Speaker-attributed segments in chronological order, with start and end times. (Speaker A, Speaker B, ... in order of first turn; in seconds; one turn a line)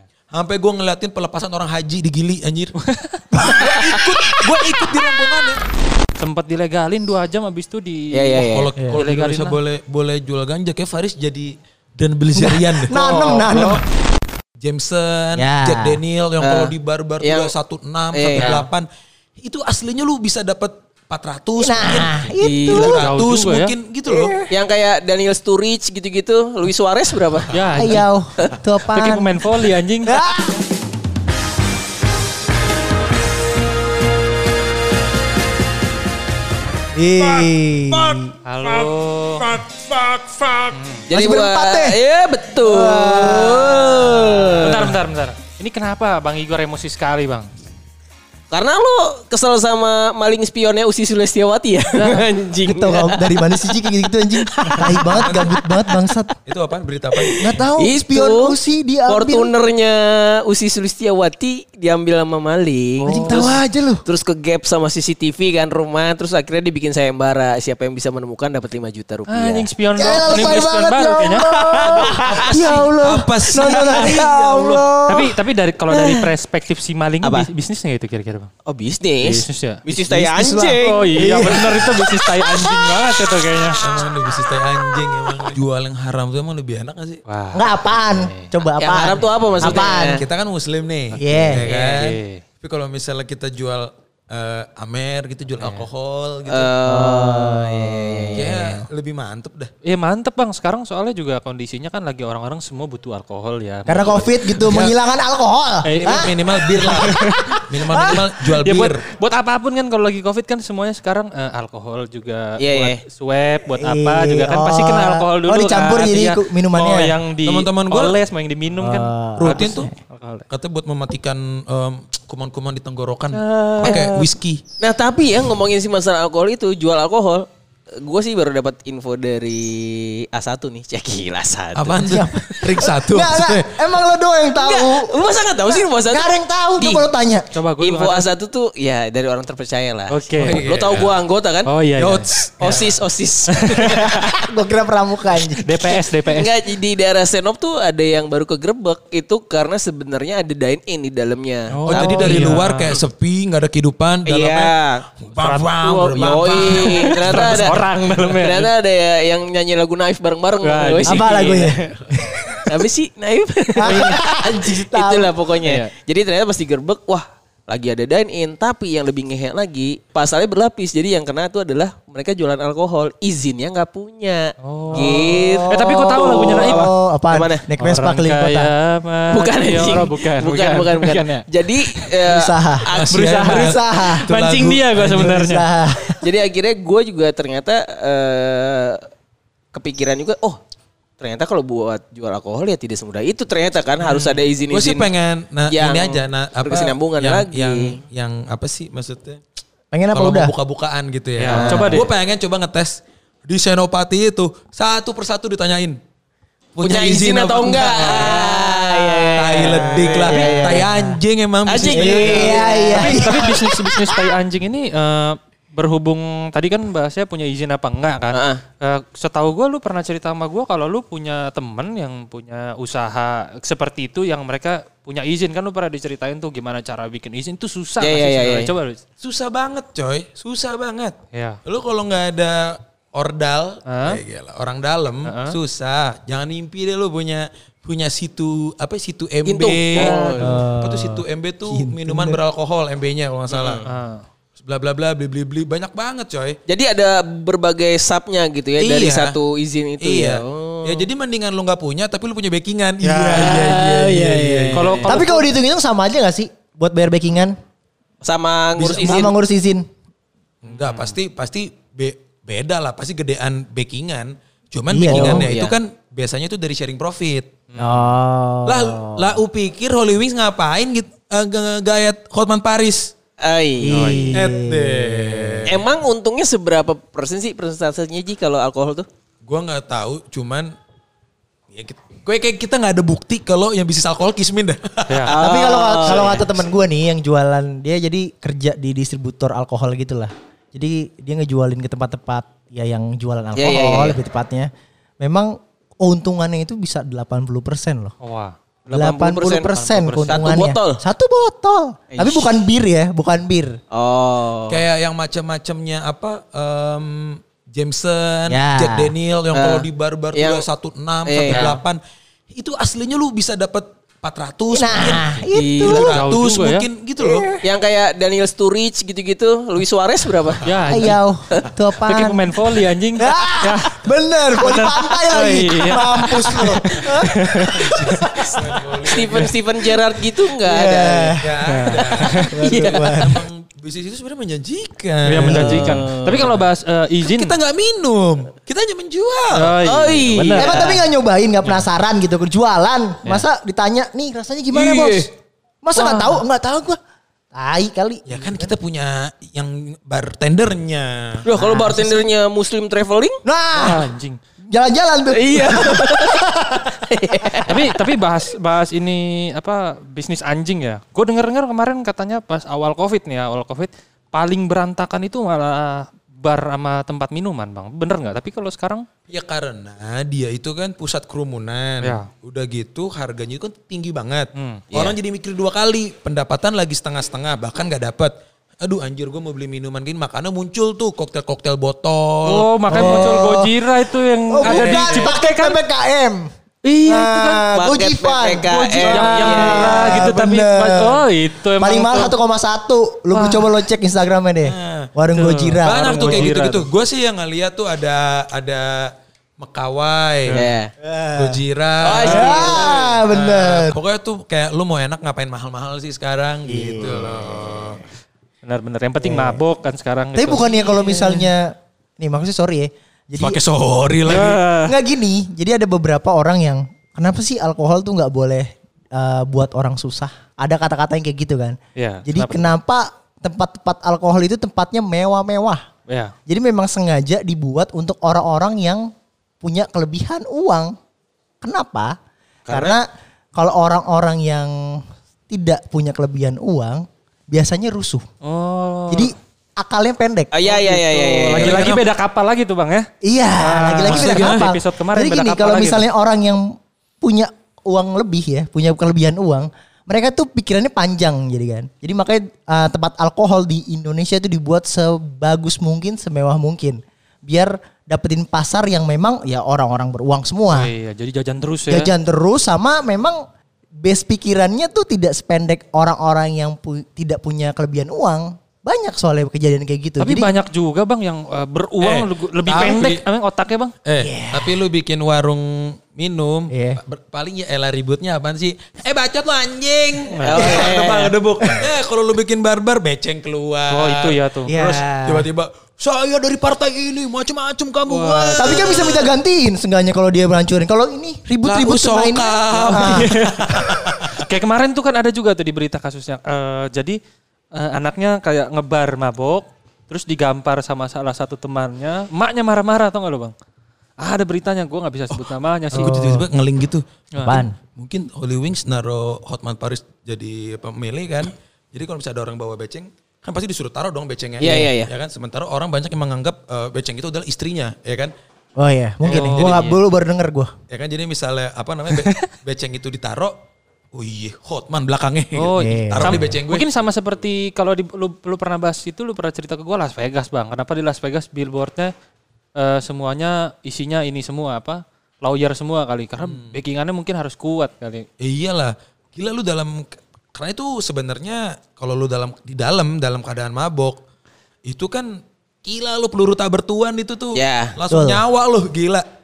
Speaker A: 0.3-2.7
Speaker B: 2.9-3.2
Speaker A: 3.4-5.6
Speaker B: 6.2-9.6
Speaker C: 8.1-8.7
Speaker A: 8.5-13.8
Speaker D: 12.4-13.8
Speaker B: 13.2-13.6
Speaker A: 14.6-18.9
Speaker D: 15.4-16.0
Speaker C: 16.4-17.5
Speaker C: 18.1-18.6
Speaker B: 18.4-18.7
Speaker A: 19.4-24.4
Speaker D: 21.6-23.0
Speaker C: 22.4-22.9
Speaker B: 22.9-23.7
Speaker D: 24.1-24.5
Speaker C: 24.5-27.6
Speaker B: 27.5-28.1
Speaker D: 27.7-29.4
Speaker B: 28.9-30.1
Speaker D: 30.0-30.5
Speaker D: 37.0-38.3
Speaker B: 38.5-39.6
Speaker A: 39.4-40.7
Speaker B: 40.7-41.1
Speaker C: 41.1-44.9
Speaker D: 41.1-42.0
Speaker D: 42.6-45.0
Speaker B: 44.6-47.5
Speaker C: 48.5-53.8
Speaker B: 51.9-52.2
Speaker D: 52.0-56.3
Speaker C: 54.4-56.0
Speaker A: 55.2-55.6
Speaker A: 56.5-57.5
Speaker C: 57.2-70.6
Speaker D: 57.4-59.5
Speaker D: 63.0-64.0
Speaker B: 63.1-63.5
Speaker B: 69.3-72.2
Speaker D: 70.0-75.4
Speaker C: 72.2-72.6
Speaker A: 72.2-75.0
Speaker B: 75.1-78.5
Speaker C: 77.2-77.5
Speaker C: 78.7-81.8
Speaker B: 79.2-79.8
Speaker D: 79.9-83.0
Speaker B: 80.8-83.8
Speaker A: 83.8-87.2
Speaker B: 87.3-88.5
Speaker D: 87.5-90.2
Speaker C: 88.8-90.2
Speaker A: 90.2-96.7
Speaker B: 91.1-92.4
Speaker D: 91.2-91.7
Speaker C: 91.7-92.0
Speaker B: 95.6-95.9
Speaker C: 96.5-98.5
Speaker D: 96.9-98.8
Speaker A: 98.3-99.7
Speaker B: 99.8-104.8
Speaker D: 103.9-108.2
Speaker A: 104.7-104.9
Speaker B: 105.9-106.3
Speaker A: 105.9-109.0
Speaker B: 107.0-107.4
Speaker B: 108.6-120.5
Speaker C: 112.6-113.0
Speaker D: 113.7-117.1
Speaker A: 117.4-118.2
Speaker D: 118.8-120.0
Speaker A: 119.4-119.9
Speaker A: 120.5-124.6
Speaker C: 123.3-124.2
Speaker B: 123.8-124.1
Speaker C: 124.8-127.5
Speaker C: 128.0-132.5
Speaker A: 131.8-133.8
Speaker D: 132.1-137.5
Speaker C: 134.6-137.1
Speaker B: 137.5-138.3
Speaker C: 137.8-141.7
Speaker B: 140.1-140.6
Speaker A: 140.4-141.2
Speaker B: 141.7-142.9
Speaker A: 142.0-142.9
Speaker C: 142.6-144.4
Speaker B: 143.5-144.1
Speaker D: 143.8-145.8
Speaker B: 145.5-146.6
Speaker C: 146.3-151.8
Speaker B: 151.7-153.0
Speaker A: 151.9-157.8
Speaker D: 151.9-152.5
Speaker C: 154.2-155.1
Speaker B: 155.3-158.7
Speaker C: 156.1-161.8
Speaker B: 160.6-161.7
Speaker D: 161.1-162.7
Speaker C: 162.7-177.7
Speaker D: 163.8-165.4
Speaker B: 163.8-164.2
Speaker B: 165.6-165.9
Speaker B: 174.6-176.9
Speaker D: 174.9-178.7
Speaker B: 177.8-182.1
Speaker C: 179.3-183.4
Speaker D: 182.2-182.9
Speaker A: 182.9-185.3
Speaker B: 183.1-185.7
Speaker D: 183.4-184.3
Speaker D: 185.0-186.2
Speaker C: 186.2-189.0
Speaker C: 189.7-190.6
Speaker C: 191.2-195.1
Speaker B: 194.0-194.4
Speaker A: 194.7-199.4
Speaker C: 195.7-198.0
Speaker D: 199.9-200.5
Speaker A: 200.1-203.0
Speaker B: 201.4-202.1
Speaker C: 201.5-202.0
Speaker A: 203.5-206.0
Speaker A: 206.8-208.8
Speaker C: 206.8-210.9
Speaker D: 208.9-211.2
Speaker A: 209.4-213.1
Speaker C: 211.7-214.0
Speaker D: 211.9-213.6
Speaker B: 212.9-229.0
Speaker C: 218.3-218.6
Speaker C: 228.0-228.7
Speaker A: 229.2-243.8
Speaker B: 231.3-231.6
Speaker B: 233.9-234.2
Speaker B: 235.2-235.6
Speaker C: 239.4-240.5
Speaker B: 240.0-240.3
Speaker D: 240.2-242.4
Speaker C: 243.5-243.9
Speaker B: 243.9-244.2
Speaker A: 244.6-246.6
Speaker C: 246.7-251.1
Speaker A: 248.8-249.4
Speaker A: 250.0-255.0
Speaker B: 253.0-253.8
Speaker C: 253.3-255.4
Speaker B: 254.7-255.4
Speaker D: 255.1-257.6
Speaker C: 258.2-259.3
Speaker A: 258.8-259.3
Speaker D: 258.9-259.8
Speaker A: 260.6-267.5
Speaker B: 260.7-261.1
Speaker D: 264.9-265.5
Speaker C: 265.1-265.8
Speaker B: 267.7-268.1
Speaker D: 267.8-269.4
Speaker A: 268.6-273.1
Speaker C: 273.4-274.3
Speaker D: 273.8-275.7
Speaker B: 273.9-274.4
Speaker A: 274.3-275.8
Speaker C: 275.7-279.1
Speaker A: 279.4-280.7
Speaker A: 281.7-285.3
Speaker B: 285.1-285.4
Speaker C: 285.3-286.4
Speaker D: 285.3-298.1
Speaker A: 286.1-286.4
Speaker C: 293.6-294.2
Speaker B: 298.2-298.6
Speaker C: 298.9-299.7
Speaker D: 298.9-303.8
Speaker B: 299.6-300.7
Speaker C: 300.3-301.0
Speaker C: 302.1-302.6
Speaker C: 303.9-304.8
Speaker A: 304.7-312.0
Speaker D: 308.5-309.1
Speaker C: 309.5-310.7
Speaker C: 311.3-311.8
Speaker B: 311.5-311.7
Speaker A: 312.5-317.5
Speaker D: 314.7-316.2
Speaker C: 315.6-316.1
Speaker B: 315.9-316.9
Speaker D: 317.2-317.6
Speaker C: 317.6-320.6
Speaker B: 320.6-321.3
Speaker D: 320.9-322.5
Speaker B: 322.0-324.0
Speaker D: 323.2-328.6
Speaker B: 324.5-328.0
Speaker A: 327.7-329.6
Speaker C: 329.1-331.4
Speaker D: 330.6-331.5
Speaker A: 331.4-335.9
Speaker B: 331.7-332.5
Speaker C: 332.0-333.2
Speaker D: 332.5-333.4
Speaker B: 335.2-337.6
Speaker D: 335.4-335.8
Speaker C: 335.6-336.6
Speaker A: 337.2-339.8
Speaker B: 339.5-341.0
Speaker C: 339.8-341.0
Speaker D: 340.6-345.3
Speaker C: 344.7-345.3
Speaker D: 345.8-347.0
Speaker C: 346.0-346.3
Speaker D: 347.5-348.7
Speaker A: 348.3-351.5
Speaker C: 351.4-353.4
Speaker D: 351.5-352.3
Speaker D: 353.4-354.1
Speaker B: 353.8-354.4
Speaker D: 354.7-356.9
Speaker C: 355.3-357.9
Speaker B: 357.7-369.1
Speaker A: 369.3-383.4
Speaker B: 372.0-372.3
Speaker B: 374.6-374.8
Speaker C: 374.9-375.2
Speaker B: 382.5-385.8
Speaker D: 382.9-383.7
Speaker D: 384.5-386.5
Speaker B: 386.9-387.7
Speaker C: 387.0-390.3
Speaker D: 387.1-391.2
Speaker B: 388.7-392.3
Speaker D: 391.8-396.6
Speaker B: 393.3-393.9
Speaker A: 394.6-395.1
Speaker B: 395.3-396.9
Speaker A: 395.8-400.6
Speaker B: 400.5-400.8
Speaker C: 400.5-400.9
Speaker D: 401.0-401.6
Speaker A: 401.4-408.0
Speaker C: 402.0-403.1
Speaker D: 402.2-404.0
Speaker B: 402.2-402.6
Speaker D: 406.7-407.5
Speaker B: 408.6-411.5
Speaker D: 409.2-409.6
Speaker D: 410.4-413.6
Speaker A: 413.4-414.6
Speaker B: 414.3-414.9
Speaker D: 414.9-425.8
Speaker B: 422.0-422.7
Speaker B: 426.1-426.3
Speaker D: 426.5-429.1
Speaker D: 429.6-430.9
Speaker D: 431.6-432.1
Speaker A: 432.7-432.9
Speaker D: 432.7-438.2
Speaker B: 438.4-439.3
Speaker D: 439.1-440.9
Speaker C: 440.5-441.8
Speaker B: 440.7-443.1
Speaker A: 441.5-442.1
Speaker D: 443.2-446.6
Speaker B: 443.6-446.1
Speaker A: 444.1-444.7
Speaker D: 447.2-460.9
Speaker B: 460.7-462.1
Speaker D: 461.9-463.4
Speaker D: 464.0-470.5
Speaker B: 470.2-473.9
Speaker A: 472.0-473.2
Speaker A: 474.1-489.3
Speaker D: 474.2-474.8
Speaker D: 476.7-477.0
Speaker B: 480.3-480.7
Speaker C: 480.4-481.3
Speaker B: 483.9-484.7
Speaker D: 484.7-485.5
Speaker B: 488.1-489.2
Speaker D: 488.6-493.9
Speaker A: 491.6-494.3
Speaker B: 492.9-493.8
Speaker B: 494.3-497.2
Speaker B: 497.8-503.6
Speaker B: 504.2-506.2
Speaker A: 505.3-518.3
Speaker D: 505.9-506.5
Speaker B: 507.3-507.7
Speaker D: 507.4-507.8
Speaker C: 514.6-515.1
Speaker D: 518.8-520.7
Speaker A: 519.2-520.0
Speaker B: 519.3-520.0
Speaker A: 520.9-523.6
Speaker B: 522.1-522.5
Speaker A: 524.1-526.9
Speaker B: 525.5-532.1
Speaker D: 525.8-526.5
Speaker B: 532.8-538.3
Speaker A: 536.4-536.8
Speaker A: 538.4-544.2
Speaker A: 544.9-545.3
Speaker A: 545.8-549.2
Speaker C: 547.5-548.0
Speaker D: 548.1-548.4